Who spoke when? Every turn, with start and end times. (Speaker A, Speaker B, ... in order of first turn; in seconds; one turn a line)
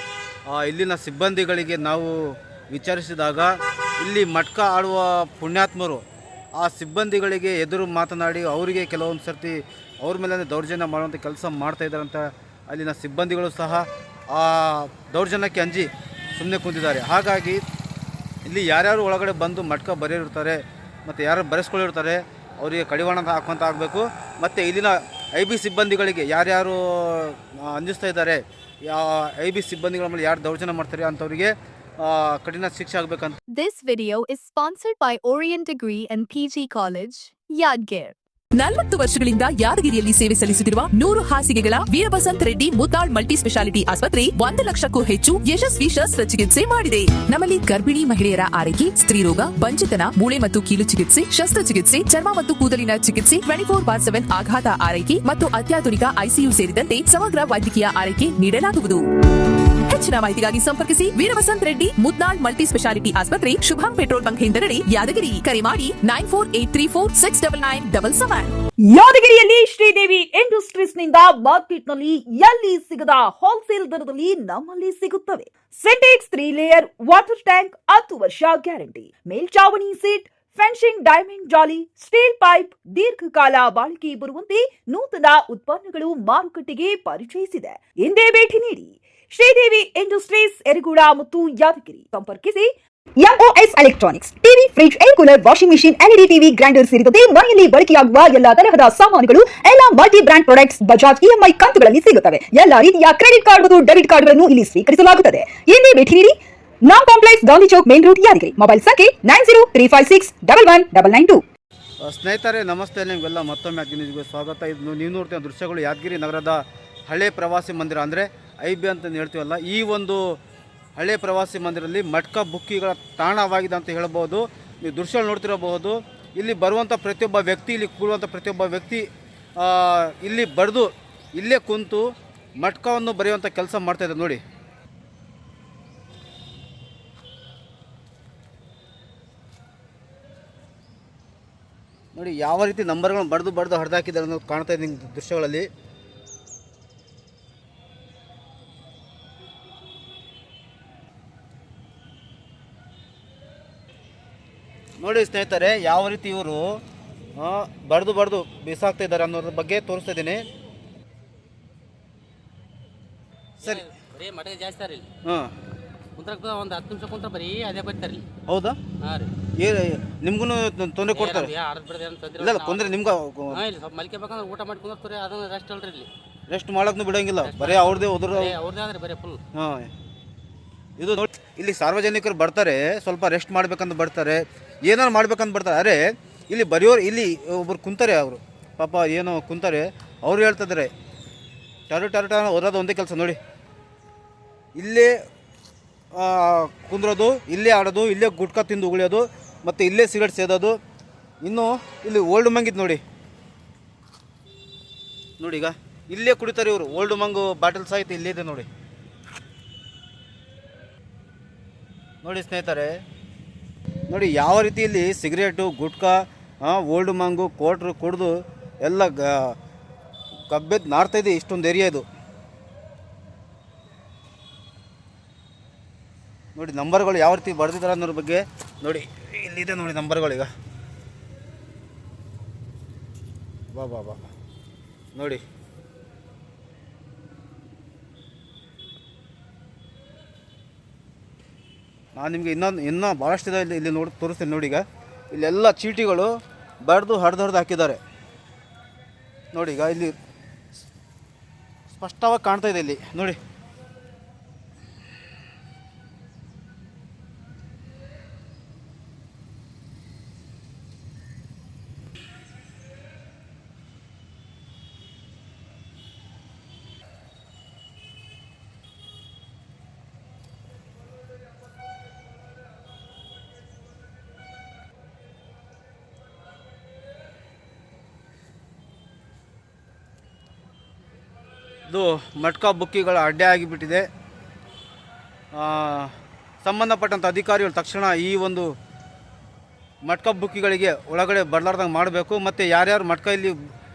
Speaker A: 0.5-6.0
Speaker A: 6.5-17.6
Speaker A: 18.4-33.4
Speaker B: 33.5-38.1
Speaker C: 38.5-68.6
Speaker D: 68.9-111.4
Speaker A: 112.0-120.4
Speaker A: 121.0-129.0
Speaker A: 129.6-134.4
Speaker A: 142.1-145.7
Speaker A: 155.0-156.8
Speaker A: 157.4-160.4
Speaker E: 163.6-165.1
Speaker A: 165.2-165.5
Speaker E: 166.2-168.3
Speaker A: 168.5-168.8
Speaker E: 169.0-169.3
Speaker A: 169.6-171.5
Speaker E: 171.1-172.9
Speaker A: 172.4-173.6
Speaker E: 173.5-176.1
Speaker A: 176.5-178.5
Speaker E: 177.4-179.4
Speaker A: 179.5-179.9
Speaker A: 181.0-190.9
Speaker A: 191.9-193.4
Speaker A: 194.8-195.1
Speaker A: 196.1-200.8
Speaker A: 201.4-203.0
Speaker A: 205.4-208.7
Speaker A: 212.2-213.0
Speaker A: 214.1-219.6
Speaker A: 220.5-222.1
Speaker A: 226.5-230.5
Speaker A: 233.7-234.2
Speaker A: 235.1-235.4
Speaker A: 242.1-246.3
Speaker A: 246.8-248.0
Speaker A: 249.5-250.2
Speaker A: 251.9-253.4
Speaker A: 281.9-284.1
Speaker A: 285.5-288.7
Speaker A: 290.0-293.6